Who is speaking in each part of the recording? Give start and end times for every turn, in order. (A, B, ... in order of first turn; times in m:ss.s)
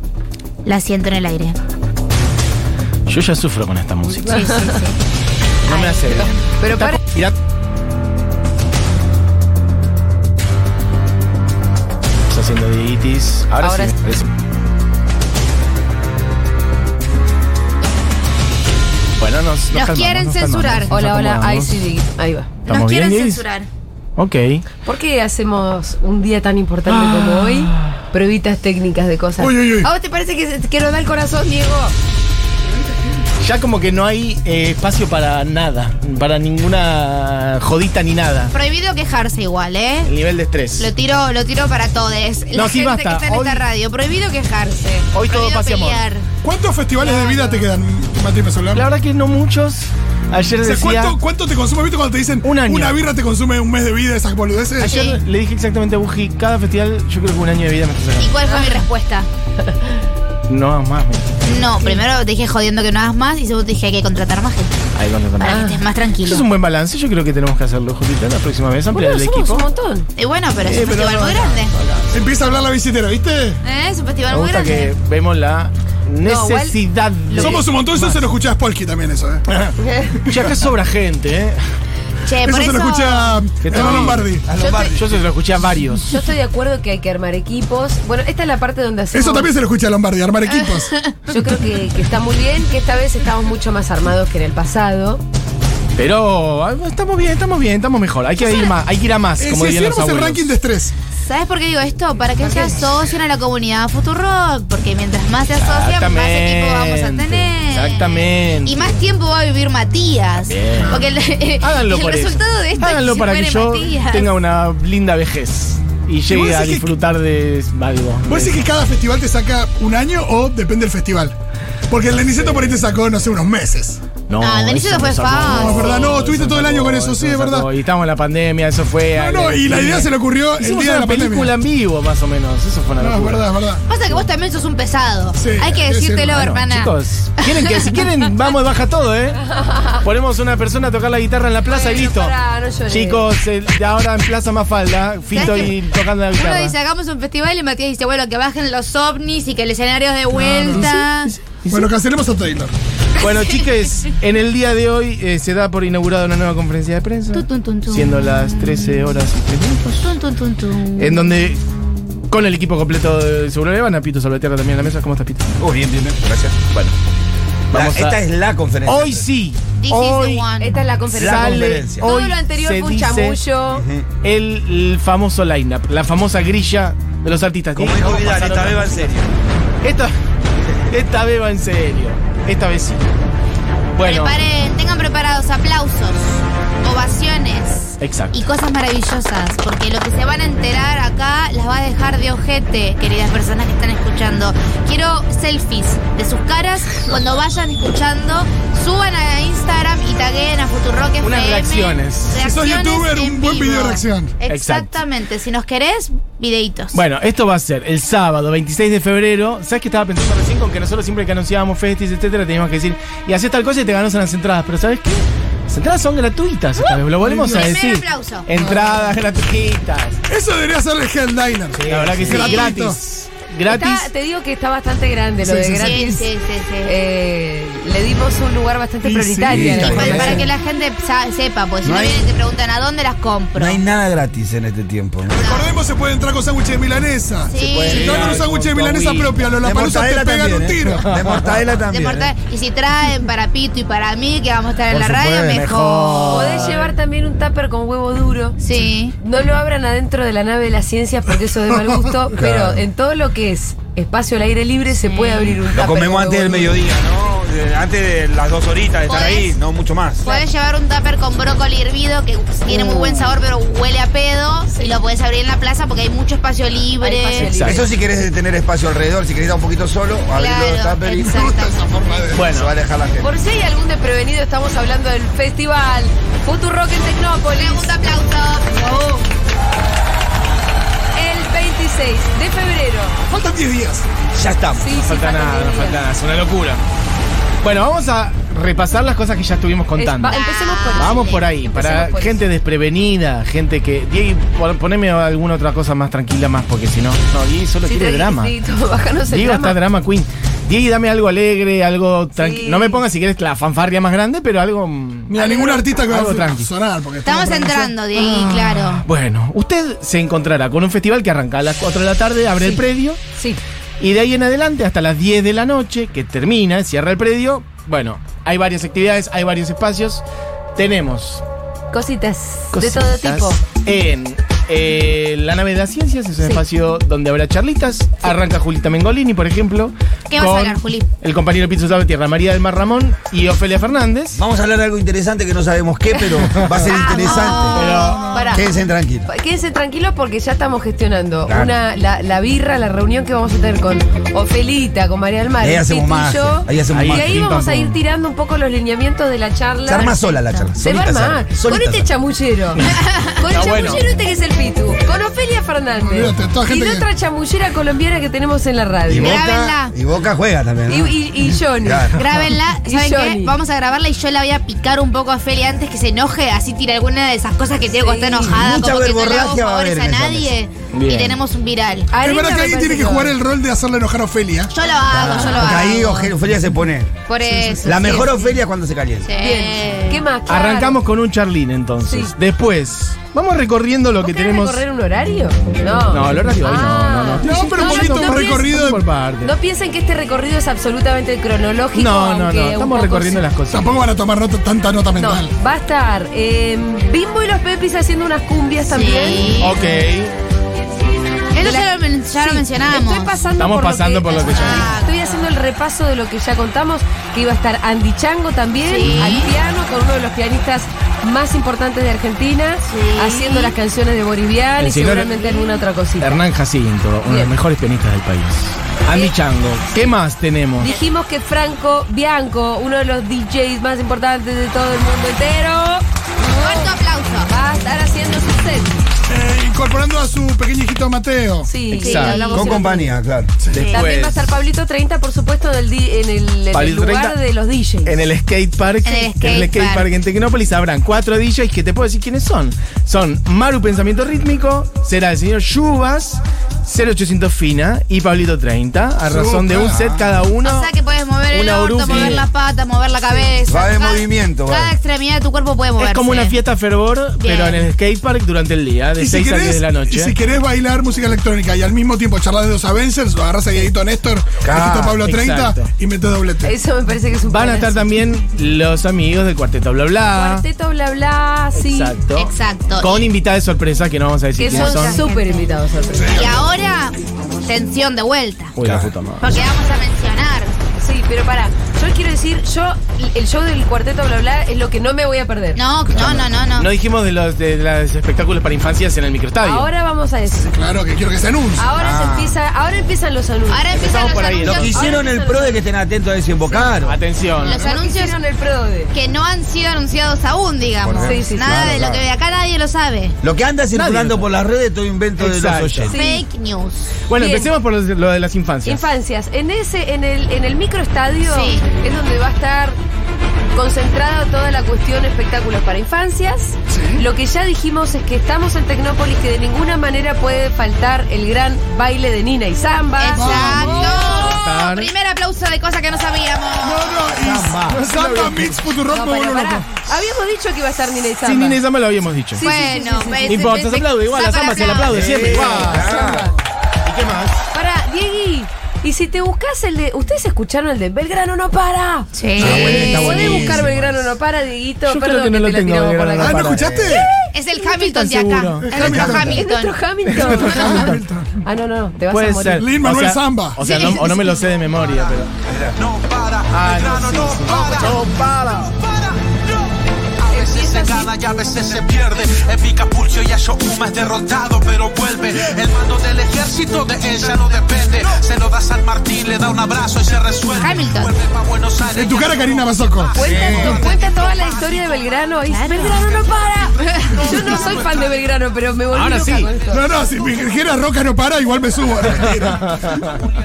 0:00.6-0:01.6 A
0:03.1-0:04.4 B
0:04.2-0:05.0 A
0:04.3-0:04.8 C
0:05.7-0:06.3 A
0:05.7-0:07.0 C
0:05.7-0:07.3 B
0:12.3-0:14.3 B
0:13.6-0:13.9 C
0:19.2-0:21.9 B
0:19.7-0:20.9 A
0:20.9-0:22.5 C
0:22.7-0:23.4 B
0:22.7-0:23.7 A
0:24.2-0:24.6 B
0:24.8-0:32.0 C
0:27.2-0:27.5 D
0:29.4-0:29.9 D
0:33.4-0:38.5 B
0:38.5-0:40.1 A
0:40.1-0:40.9 B
0:40.8-0:46.3 A
0:42.5-0:43.7 B
0:45.1-0:46.0 B
0:46.4-0:48.9 D
0:47.0-0:47.6 C
0:48.7-0:51.2 B
0:50.6-0:54.9 D
0:52.4-0:53.0 B
0:54.8-0:58.4 B
0:54.9-0:55.2 A
0:58.2-0:59.3 A
1:00.5-1:01.3 B
1:01.5-1:04.8 A
1:04.9-1:05.6 B
1:05.4-1:06.4 A
1:05.4-1:05.8 C
1:06.2-1:09.7 B
1:08.9-1:10.1 C
1:10.2-1:11.7 A
1:10.6-1:12.1 B
1:12.1-1:13.6 D
1:13.6-1:14.9 A
1:14.3-1:18.2 B
1:16.2-1:17.6 C
1:17.4-1:19.5 D
1:19.8-1:20.2 C
1:20.3-1:21.6 B
1:22.2-1:23.4 A
1:22.4-1:24.4 D
1:23.6-1:24.3 B
1:23.8-1:25.2 E
1:24.6-1:25.0 C
1:25.0-1:26.2 B
1:26.1-1:29.5 C
1:29.1-1:30.9 D
1:30.5-1:31.2 A
1:31.3-1:35.2 C
1:36.0-1:40.5 B
1:38.4-1:38.7 A
1:39.4-1:40.9 D
1:41.2-1:54.3 A
1:42.4-1:42.8 C
1:45.6-1:49.0 B
1:50.5-1:51.1 B
1:51.6-1:58.6 B
1:56.3-1:57.0 D
1:58.2-2:01.4 D
2:01.9-2:04.0 D
2:02.2-2:02.8 B
2:04.3-2:13.5 B
2:04.4-2:06.1 A
2:05.4-2:07.7 D
2:09.1-2:11.5 D
2:13.0-2:13.8 D
2:13.9-2:18.0 A
2:15.4-2:16.4 D
2:16.3-2:19.4 B
2:19.6-2:20.0 C
2:20.0-2:22.3 B
2:21.7-2:23.3 C
2:22.9-2:26.8 B
2:25.3-2:25.8 A
2:26.3-2:31.3 A
2:30.4-2:30.9 D
2:30.5-2:31.9 B
2:31.7-2:32.7 D
2:33.2-2:40.2 B
2:37.3-2:39.0 A
2:40.0-2:41.3 A
2:41.0-2:41.6 B
2:42.3-2:45.5 B
2:45.6-2:46.7 E
2:47.7-2:48.2 B
2:47.7-2:49.2 E
2:48.8-2:50.5 B
2:49.8-2:50.8 A
2:50.6-2:53.8 C
2:51.2-2:52.1 E
2:51.2-2:53.4 B
2:53.7-2:54.1 E
2:54.2-2:59.1 B
2:57.8-2:59.3 E
2:59.8-3:00.2 B
3:00.9-3:03.0 B
3:04.0-3:04.4 B
3:04.0-3:27.0 A
3:08.0-3:08.5 B
3:21.2-3:22.4 B
3:22.4-3:24.3 D
3:24.5-3:25.0 B
3:26.9-3:40.2 B
3:37.2-3:37.7 D
3:37.5-3:38.5 A
3:38.6-3:39.0 D
3:40.3-3:43.0 D
3:41.7-3:42.4 E
3:41.8-3:44.1 B
3:42.4-3:42.7 A
3:43.7-3:46.3 C
3:45.4-3:46.0 D
3:45.8-3:47.0 A
3:46.8-3:50.4 C
3:49.0-3:50.5 D
3:49.5-3:50.5 E
3:49.9-3:53.8 A
3:51.8-3:52.2 E
3:53.6-3:55.4 E
3:55.3-4:01.0 D
3:55.4-3:55.7 A
3:57.5-3:58.0 A
3:57.7-3:59.4 B
3:57.8-3:58.5 E
3:59.6-4:02.3 E
4:01.0-4:01.6 B
4:01.9-4:06.7 A
4:04.9-4:06.7 E
4:06.3-4:08.6 C
4:08.6-4:09.2 A
4:09.2-4:16.8 C
4:12.4-4:12.8 E
4:15.0-4:15.6 A
4:15.7-4:20.3 E
4:19.1-4:19.6 A
4:20.2-4:27.5 A
4:22.7-4:23.3 C
4:27.0-4:27.9 C
4:27.4-4:27.8 B
4:27.5-4:31.3 E
4:30.4-4:32.3 A
4:31.2-4:32.5 D
4:32.3-4:32.7 B
4:32.4-4:33.3 E
4:33.2-4:37.9 C
4:37.5-4:39.3 A
4:41.2-4:43.2 C
4:43.3-4:44.1 D
4:44.3-4:44.9 E
4:44.8-4:46.0 C
4:44.9-4:46.8 B
4:47.6-4:50.4 B
4:50.0-4:52.5 C
4:50.3-4:51.5 A
4:51.0-4:58.6 B
4:57.8-4:59.8 C
4:59.3-5:05.4 B
5:02.4-5:03.0 C
5:05.3-5:08.0 D
5:05.4-5:05.9 C
5:06.0-5:06.7 B
5:07.2-5:09.0 A
5:08.2-5:13.2 B
5:13.4-5:13.6 C
5:14.0-5:20.2 B
5:20.8-5:21.4 B
5:21.9-5:23.6 C
5:22.7-5:34.4 B
5:30.3-5:31.1 A
5:34.3-5:37.8 E
5:36.5-5:36.9 B
5:36.9-5:38.3 A
5:37.2-5:38.6 C
5:37.7-5:38.3 B
5:37.9-5:38.8 D
5:38.5-5:39.3 E
5:39.3-5:59.4 C
5:41.5-5:41.8 E
5:45.6-5:47.3 E
5:46.9-5:48.0 B
5:49.9-5:52.1 E
5:50.3-5:50.7 A
5:52.7-5:54.1 B
5:52.9-5:53.4 A
5:56.0-5:57.1 D
5:59.1-6:02.2 E
5:59.1-6:00.0 A
6:00.9-6:02.1 C
6:02.2-6:12.1 A
6:02.8-6:03.6 C
6:08.0-6:08.6 C
6:08.5-6:10.6 E
6:10.9-6:11.4 B
6:12.1-6:13.4 C
6:12.2-6:14.7 D
6:14.7-6:16.3 A
6:15.1-6:17.1 E
6:17.3-6:18.2 A
6:17.4-6:18.3 C
6:17.8-6:19.3 E
6:19.2-6:20.3 A
6:19.4-6:21.0 C
6:20.5-6:24.8 B
6:22.1-6:22.3 C
6:24.2-6:28.7 C
6:26.1-6:29.6 B
6:27.4-6:29.0 D
6:29.4-6:33.4 C
6:31.9-6:34.0 B
6:33.7-6:35.5 D
6:35.2-6:39.6 C
6:38.9-6:39.8 A
6:39.6-6:40.3 B
6:41.5-6:43.4 A
6:42.4-6:56.4 C
6:43.6-6:45.0 B
6:44.3-6:45.2 A
6:48.8-6:49.5 A
6:52.8-6:53.7 A
6:54.8-7:00.9 B
6:57.2-6:57.5 C
7:00.8-7:07.0 C
7:06.5-7:07.5 A
7:07.5-7:08.9 C
7:09.3-7:11.7 D
7:11.6-7:13.2 C
7:11.9-7:12.5 B
7:12.0-7:12.8 A
7:12.5-7:13.5 E
7:13.7-7:14.5 B
7:13.9-7:18.2 C
7:16.7-7:17.4 B
7:18.0-7:30.9 B
7:19.0-7:20.1 A
7:29.2-7:30.0 D
7:29.9-7:30.2 E
7:30.6-7:36.6 A
7:31.5-7:32.5 B
7:33.7-7:34.9 E
7:36.0-7:40.4 B
7:37.4-7:37.9 A
7:39.2-7:46.7 D
7:44.6-7:45.2 E
7:45.2-7:45.9 B
7:46.6-7:48.2 C
7:47.5-7:50.6 B
7:50.3-7:52.2 C
7:51.7-7:55.2 B
7:52.4-7:53.3 A
7:54.6-7:56.5 C
7:54.6-7:55.7 A
7:56.3-7:58.8 A
7:58.8-7:59.6 B
7:58.8-7:59.1 E
7:59.4-8:00.8 A
8:01.0-8:05.8 C
8:05.8-8:06.9 A
8:06.1-8:09.9 B
8:09.6-8:10.7 C
8:10.6-8:11.9 D
8:11.8-8:14.0 C
8:12.0-8:12.6 E
8:13.7-8:15.1 A
8:13.9-8:14.9 B
8:14.6-8:17.2 E
8:14.9-8:15.9 C
8:17.0-8:17.8 B
8:17.6-8:19.1 C
8:17.6-8:18.4 A
8:19.1-8:23.4 A
8:21.0-8:22.3 E
8:21.2-8:21.9 C
8:23.4-8:26.1 E
8:23.9-8:24.5 B
8:25.4-8:26.1 B
8:26.1-8:26.4 C
8:26.1-8:27.2 A
8:27.3-8:29.1 B
8:27.4-8:27.7 C
8:28.8-8:33.0 C
8:31.5-8:31.8 A
8:33.7-8:44.0 C
8:36.9-8:37.2 D
8:43.2-8:47.3 A
8:43.4-8:44.5 D
8:44.0-8:45.1 B
8:46.8-8:49.9 D
8:47.4-8:48.0 E
8:47.6-8:48.8 B
8:49.1-8:51.8 C
8:51.4-8:52.7 B
8:52.5-8:53.9 C
8:52.6-8:55.4 A
8:53.5-8:56.2 B
8:55.1-8:56.5 E
8:55.4-8:56.5 C
8:56.0-8:56.5 D
8:57.0-8:57.6 B
8:57.7-9:06.7 C
9:02.4-9:03.6 A
9:02.6-9:03.8 E
9:02.6-9:04.3 B
9:05.0-9:07.2 B
9:06.4-9:07.3 D
9:06.7-9:07.3 E
9:07.5-9:10.0 A
9:07.8-9:09.0 B
9:08.9-9:09.6 D
9:09.0-9:09.5 E
9:09.4-9:12.8 C
9:10.3-9:11.6 D
9:10.4-9:11.2 B
9:12.3-9:15.5 B
9:12.8-9:13.8 D
9:13.8-9:14.2 A
9:13.8-9:14.6 C
9:15.0-9:15.3 F
9:15.7-9:16.0 E
9:16.0-9:19.8 F
9:16.7-9:18.9 B
9:20.4-9:35.4 F
9:20.5-9:21.3 C
9:30.8-9:31.3 A
9:32.1-9:34.1 D
9:33.3-9:40.0 C
9:33.4-9:34.0 E
9:35.7-9:36.2 A
9:37.4-9:38.0 D
9:38.0-9:38.3 F
9:39.1-9:39.7 B
9:39.9-9:43.2 D
9:42.4-9:43.4 B